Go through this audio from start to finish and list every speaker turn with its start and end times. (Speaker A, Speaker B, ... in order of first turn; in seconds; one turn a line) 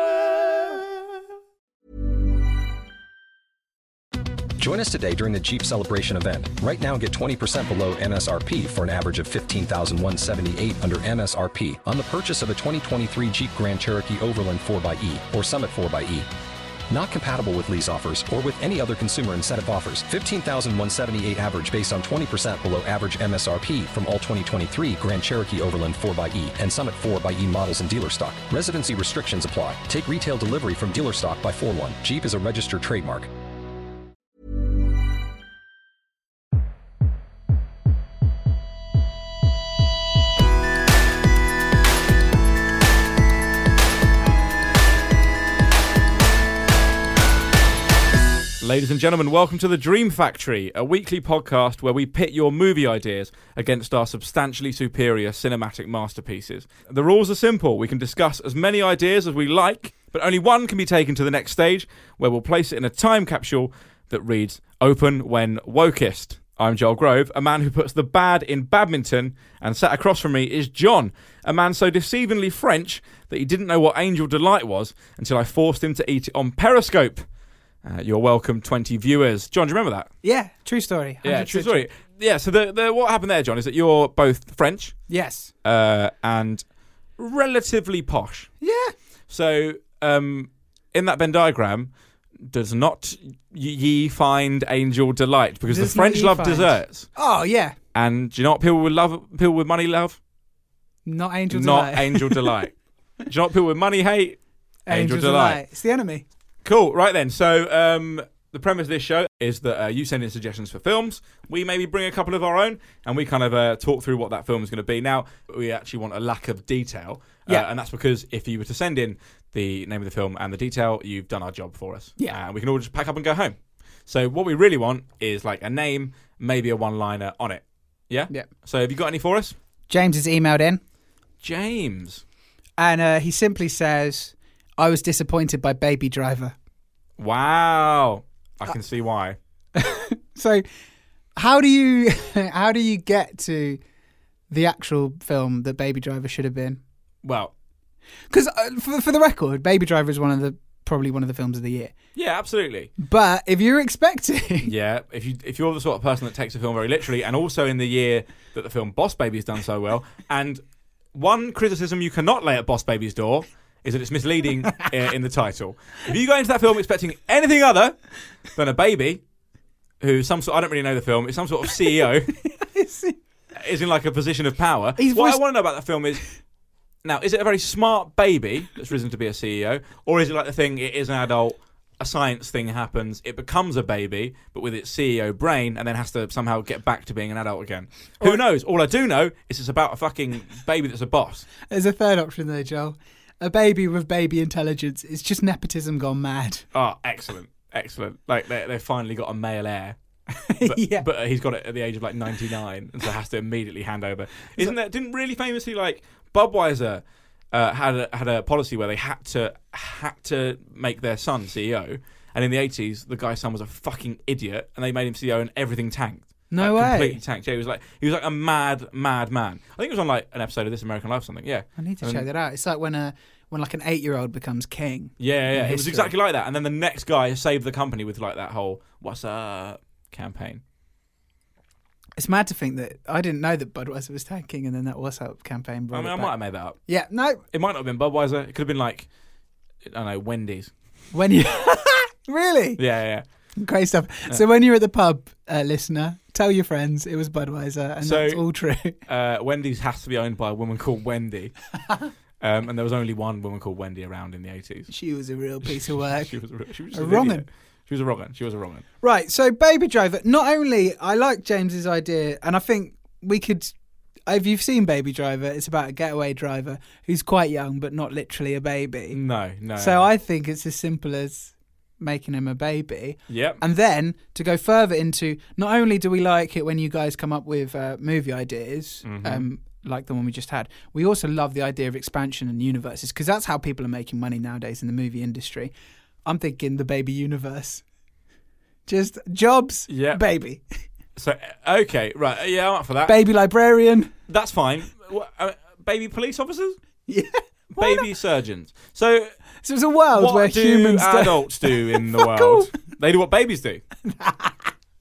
Speaker A: 0.5-0.8
Speaker B: 4.6-16.3
Speaker B: 16.9-33.3
Speaker C: 48.6-77.2
Speaker C: 77.8-80.1
Speaker A: 80.2-81.8
Speaker C: 81.2-85.1
Speaker A: 85.1-85.5
Speaker C: 85.6-86.6
Speaker C: 87.2-88.5
Speaker A: 88.6-88.9
Speaker C: 89.3-97.1
Speaker A: 95.7-97.7
Speaker C: 97.9-100.2
Speaker A: 101.0-102.5
Speaker C: 101.5-105.6
Speaker A: 104.9-106.2
Speaker C: 106.6-129.6
Speaker A: 129.9-130.8
Speaker C: 131.4-132.2
Speaker A: 132.8-136.5
Speaker C: 137.2-139.4
Speaker A: 139.8-140.7
Speaker A: 141.4-143.8
Speaker A: 144.5-146.8
Speaker C: 147.2-147.5
Speaker A: 148.3-151.9
Speaker C: 152.1-152.9
Speaker A: 153.0-154.7
Speaker C: 154.6-160.6
Speaker C: 161.1-168.0
Speaker C: 168.5-169.2
Speaker C: 170.0-172.3
Speaker A: 172.4-173.2
Speaker C: 173.5-176.2
Speaker A: 175.0-175.4
Speaker C: 177.0-191.5
Speaker A: 191.7-196.7
Speaker C: 196.7-200.0
Speaker A: 200.3-201.1
Speaker C: 200.6-222.2
Speaker A: 216.5-217.2
Speaker A: 221.8-226.1
Speaker C: 225.2-230.6
Speaker A: 232.2-236.3
Speaker C: 235.9-236.8
Speaker A: 236.8-237.4
Speaker C: 237.5-239.1
Speaker C: 239.8-240.7
Speaker A: 241.1-242.8
Speaker C: 242.8-243.2
Speaker A: 243.6-249.0
Speaker C: 248.0-248.4
Speaker C: 249.1-251.5
Speaker C: 252.4-254.9
Speaker A: 254.9-256.3
Speaker C: 255.6-258.8
Speaker A: 256.9-257.4
Speaker A: 259.0-263.7
Speaker A: 264.3-269.2
Speaker C: 269.1-270.1
Speaker A: 269.8-285.7
Speaker C: 273.3-273.6
Speaker C: 279.0-279.4
Speaker A: 286.2-287.8
Speaker A: 288.9-290.6
Speaker C: 289.9-290.2
Speaker C: 291.1-293.1
Speaker A: 293.0-294.1
Speaker C: 294.3-296.8
Speaker A: 297.1-298.0
Speaker C: 297.7-299.3
Speaker A: 299.6-302.7
Speaker C: 300.1-303.8
Speaker A: 304.0-304.7